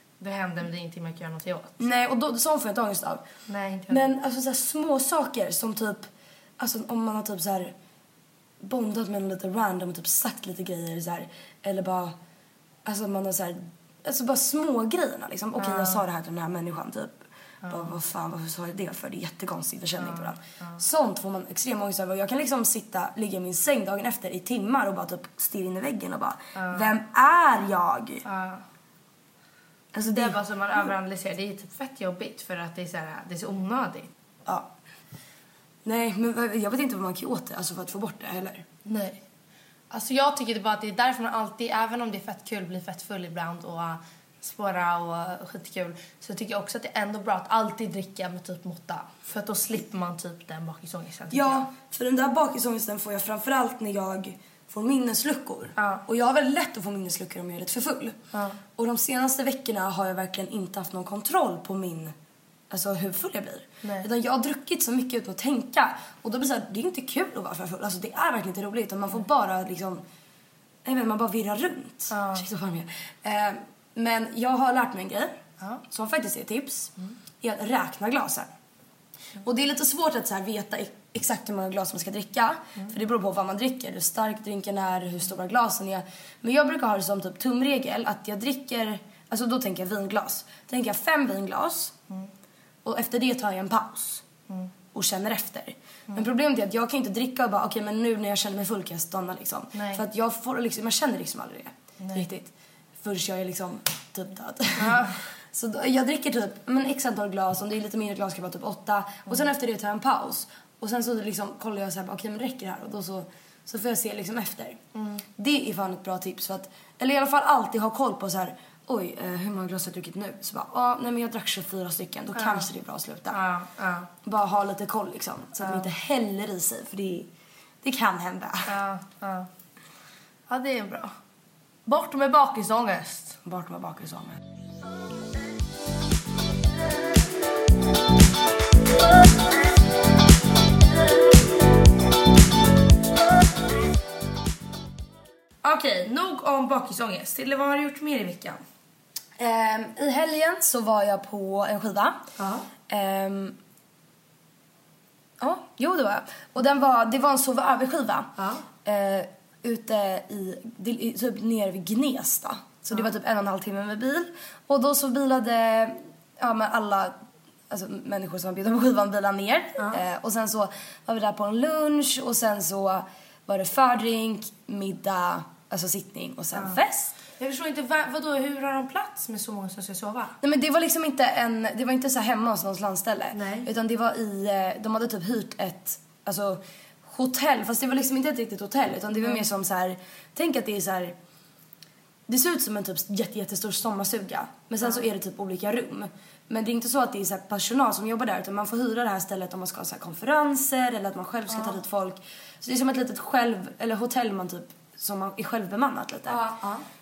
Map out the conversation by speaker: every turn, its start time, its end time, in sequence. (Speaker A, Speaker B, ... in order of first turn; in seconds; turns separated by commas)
Speaker A: 0.2-1.8, Speaker B: 1.8-3.2, Speaker A: 3.5-4.1, Speaker B: 3.9-7.7, Speaker B: 8.6-12.1, Speaker B: 12.8-28.2, Speaker A: 15.6-16.0, Speaker A: 17.6-17.9, Speaker A: 20.0-20.8, Speaker A: 26.5-26.9, Speaker A: 28.2-28.6, Speaker B: 29.9-30.9, Speaker A: 30.0-34.1, Speaker B: 35.8-38.6, Speaker A: 38.8-39.2, Speaker A: 39.9-51.7, Speaker B: 51.3-58.2, Speaker A: 55.8-56.0, Speaker A: 58.3-58.6, Speaker B: 58.7-62.1, Speaker B: 62.7-70.0, Speaker B: 70.8-75.4, Speaker A: 72.1-72.5, Speaker B: 75.9-78.5, Speaker B: 79.4-91.9, Speaker B: 92.8-94.2, Speaker B: 94.9-114.8, Speaker A: 99.7-100.0, Speaker A: 102.0-102.3, Speaker A: 104.8-105.2, Speaker A: 114.9-115.2, Speaker B: 115.3-123.4, Speaker A: 122.3-122.7, Speaker A: 123.3-124.1, Speaker B: 124.2-127.3, Speaker A: 125.6-125.9, Speaker B: 127.8-128.7, Speaker A: 128.7-129.5, Speaker A: 130.5-131.1, Speaker A: 131.8-133.4, Speaker B: 133.4-134.4, Speaker A: 145.6-148.6, Speaker B: 149.4-152.2, Speaker A: 152.4-152.7, Speaker B: 152.9-153.6, Speaker B: 155.4-158.3, Speaker A: 158.4-158.6, Speaker B: 158.8-167.2, Speaker B: 167.7-177.1, Speaker A: 177.4-180.4, Speaker B: 180.4-191.1, Speaker A: 183.3-183.7, Speaker B: 192.3-206.5, Speaker A: 201.5-201.8, Speaker A: 206.3-206.8